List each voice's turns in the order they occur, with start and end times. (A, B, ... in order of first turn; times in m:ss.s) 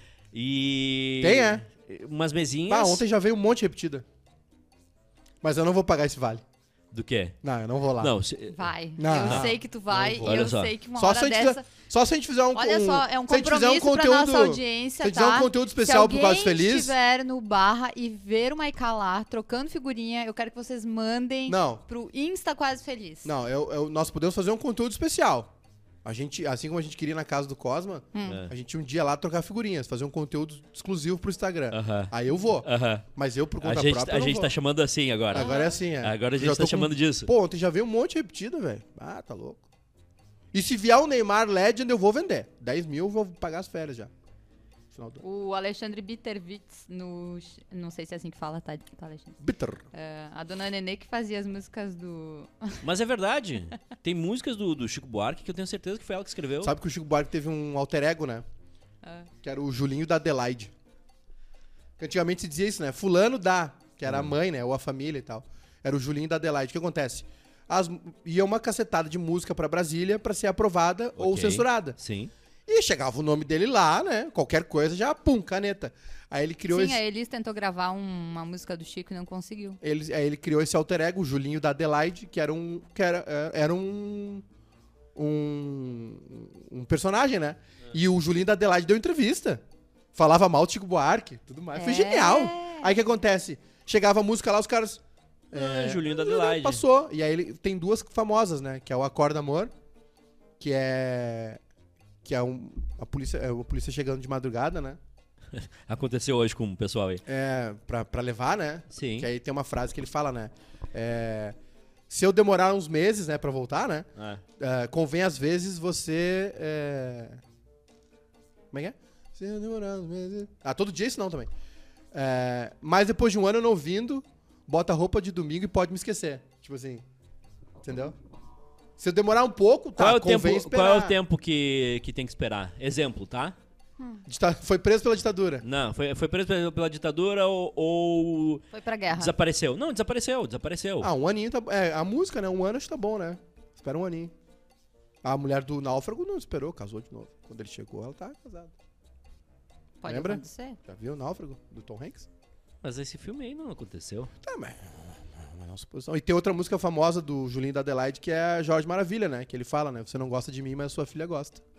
0:00.3-0:03.0 A
0:01.2-0:01.6 B
0:02.7-0:04.0 B
0:05.4-0:06.4 B
0:06.9-0:07.4 A
0:07.4-0:08.1 B
0:08.0-0:08.6 A
0:08.5-0:11.6 C
0:09.0-0:16.9 B
0:09.1-0:09.5 A
0:10.2-0:10.7 A
0:12.6-0:23.3 C
0:21.5-0:21.8 B
0:23.2-0:25.5 B
0:26.0-0:34.5 B
0:28.1-0:28.4 C
0:31.7-0:33.1 A
0:33.6-0:37.3 A
0:35.3-0:35.8 C
0:35.3-0:39.6 B
0:40.5-0:44.1 B
0:44.9-0:45.2 B
0:45.2-0:49.4 C
0:49.4-0:49.9 B
0:49.9-0:52.8 C
0:52.8-0:56.7 A
0:56.6-0:58.4 B
0:59.0-0:59.3 C
0:59.4-1:00.7 B
1:02.0-1:12.0 B
1:04.1-1:04.4 A
1:11.2-1:12.3 A
1:12.7-1:17.0 B
1:16.7-1:19.8 C
1:19.8-1:24.4 B
1:25.2-1:29.6 B
1:30.1-1:39.7 B
1:31.8-1:32.9 C
1:35.5-1:36.8 A
1:40.6-1:41.6 B
1:42.2-1:45.0 B
1:45.6-1:47.2 A
1:47.3-1:51.6 B
1:48.9-1:49.3 A
1:52.1-1:54.1 B
1:54.2-1:54.4 A
1:54.6-1:57.4 B
1:58.7-2:01.5 B
2:02.1-2:07.0 B
2:07.8-2:08.2 B
2:09.0-2:11.2 B
2:10.0-2:13.6 A
2:14.3-2:15.6 B
2:15.6-2:21.1 A
2:18.7-2:19.3 C
2:21.0-2:24.3 B
2:25.2-2:28.7 B
2:30.0-2:30.8 C
2:30.1-2:32.3 B
2:32.8-2:34.3 A
2:34.4-2:41.6 B